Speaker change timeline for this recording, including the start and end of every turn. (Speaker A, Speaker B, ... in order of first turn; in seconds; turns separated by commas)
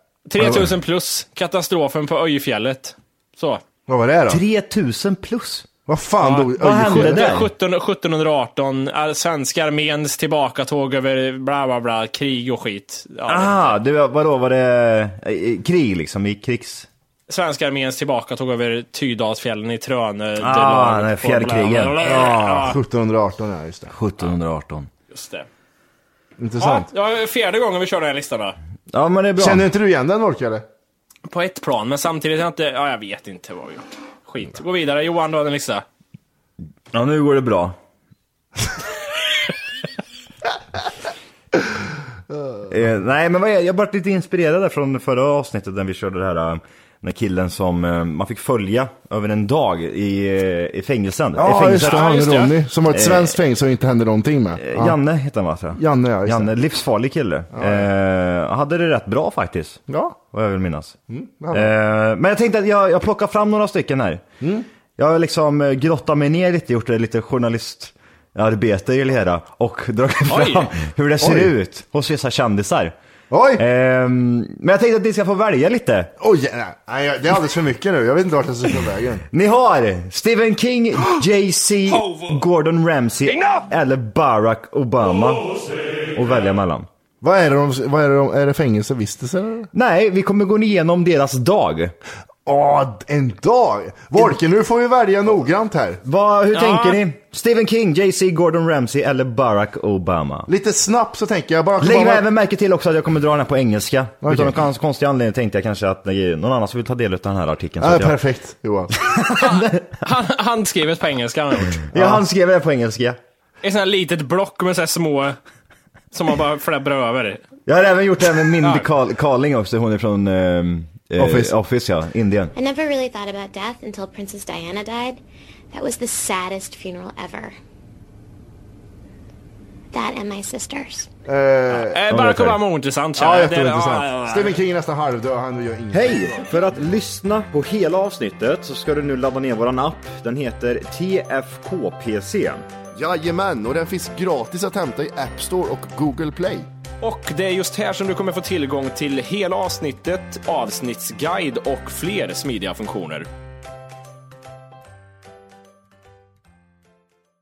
Speaker A: 0.3-3.6, Speaker B: 0.4-0.7, Speaker B: 3.9-4.4, Speaker C: 4.3-5.7, Speaker B: 5.9-7.4, Speaker A: 6.2-13.8, Speaker C: 6.5-7.5, Speaker C: 13.3-16.9, Speaker A: 17.3-22.8, Speaker C: 20.4-22.0, Speaker B: 22.0-23.9, Speaker C: 23.9-24.9, Speaker A: 25.1-25.5, Speaker B: 26.4-26.9, Speaker A: 26.6-28.6, Speaker C: 28.9-29.7, Speaker B: 29.4-30.7, Speaker A: 31.3-35.9, Speaker C: 36.9-37.8, Speaker B: 42.3-42.7, Speaker C: 42.7-52.1, Speaker B: 51.4-55.0, Speaker A: 51.8-52.5, Speaker C: 52.9-53.3, Speaker C: 54.6-61.0, Speaker B: 55.8-56.5, Speaker B: 57.5-57.9, Speaker B: 59.9-60.2, Speaker B: 61.1-61.7, Speaker C: 61.5-64.2, Speaker B: 64.4-64.7, Speaker C: 65.0-72.9, Speaker A: 70.3-70.7, Speaker B: 71.2-71.5, Speaker B: 73.3-73.6, Speaker C: 73.6-76.1, Speaker B: 76.2-79.2, Speaker C: 79.3-85.5, Speaker C: 86.1-86.9, Speaker B: 87.2-89.7, Speaker C: 89.7-91.9, Speaker B: 92.5-96.0, Speaker C: 96.0-100.5, Speaker A: 96.5-97.0, Speaker B: 100.5-102.2, Speaker C: 101.8-108.2, Speaker B: 104.2-104.6, Speaker B: 107.8-108.9, Speaker C: 109.0-109.8, Speaker A: 109.4-111.9, Speaker B: 111.9-112.2, Speaker C: 111.9-113.2, Speaker A: 113.6-115.4, Speaker A: 116.1-117.4, Speaker C: 117.7-122.5, Speaker A: 118.6-118.9, Speaker B: 121.2-121.5, Speaker D: 122.5-125.2, Speaker D: 125.7-127.6, Speaker D: 129.9-131.1, Speaker B: 131.3-132.0, Speaker A: 131.7-134.6, Speaker C: 132.1-132.6, Speaker B: 133.2-136.4, Speaker C: 135.9-142.6, Speaker B: 143.0-146.7, Speaker A: 147.0-153.3